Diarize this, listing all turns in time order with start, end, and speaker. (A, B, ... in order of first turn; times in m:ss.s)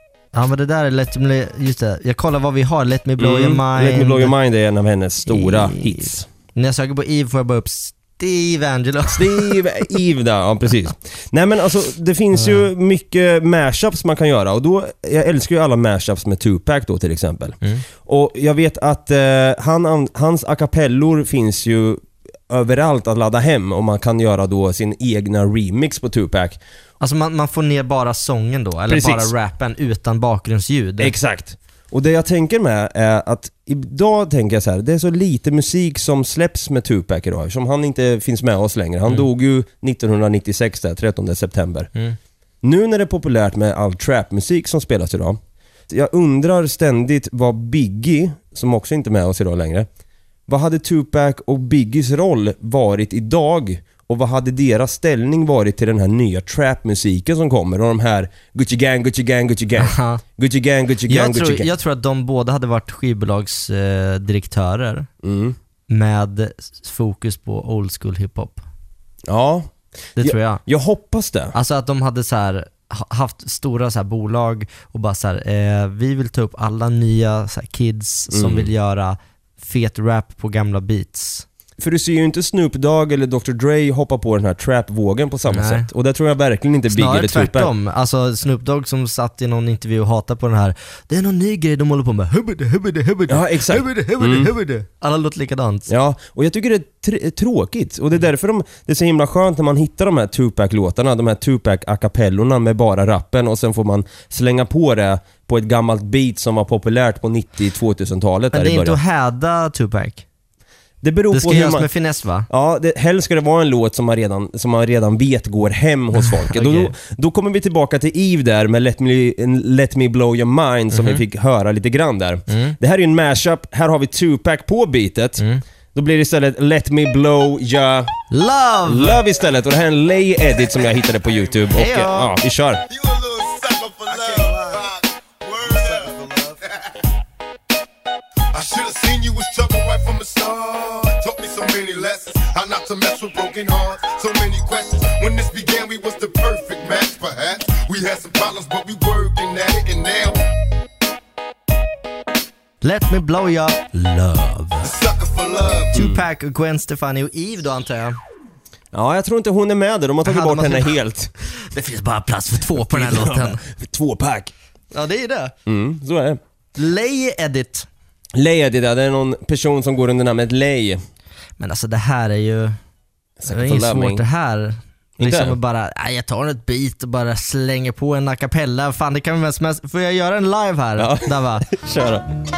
0:00.3-0:04.3 A
0:03.2-0:06.2 B
0:05.2-0:09.6 A
0:09.1-0:26.6 B
0:12.3-0:12.7 A
0:27.0-0:31.1 A
0:28.9-0:29.3 B
0:31.0-0:41.9 B
0:42.6-0:45.4 B
0:45.9-0:49.9 B
0:50.5-1:01.7 B
0:59.8-1:00.2 A
1:01.1-1:05.1 A
1:05.2-1:05.6 B
1:05.9-1:08.6 A
1:09.3-1:11.5 B
1:10.2-1:10.6 A
1:11.5-1:21.4 A
1:18.3-1:18.7 B
1:21.8-1:27.7 B
1:25.5-1:25.9 A
1:26.9-1:35.9 A
1:33.3-1:34.5 B
1:35.9-1:49.0 B
1:48.5-1:50.2 A
1:51.0-1:51.9 B
1:51.3-1:52.5 A
1:52.5-2:08.1 B
1:56.2-1:56.9 A
2:00.9-2:01.2 A
2:02.5-2:02.8 A
2:08.3-2:09.2 A
2:08.9-2:12.8 B
2:11.7-2:12.4 A
2:12.9-2:16.6 C
2:18.5-2:30.4 C
2:32.8-2:34.9 A
2:34.8-2:35.9 C
2:35.9-2:38.2 A
2:35.9-2:36.2 B
2:38.9-2:41.3 B
2:40.2-2:40.9 A
2:41.6-2:43.6 A
2:42.9-2:44.5 B
2:44.9-2:45.5 A
2:45.7-2:46.4 B
2:46.8-2:47.9 A
2:48.4-2:51.0 B
2:51.6-2:52.8 A
2:53.4-2:54.2 B
2:53.5-3:01.7 A
2:55.2-2:55.6 B
3:01.0-3:02.2 B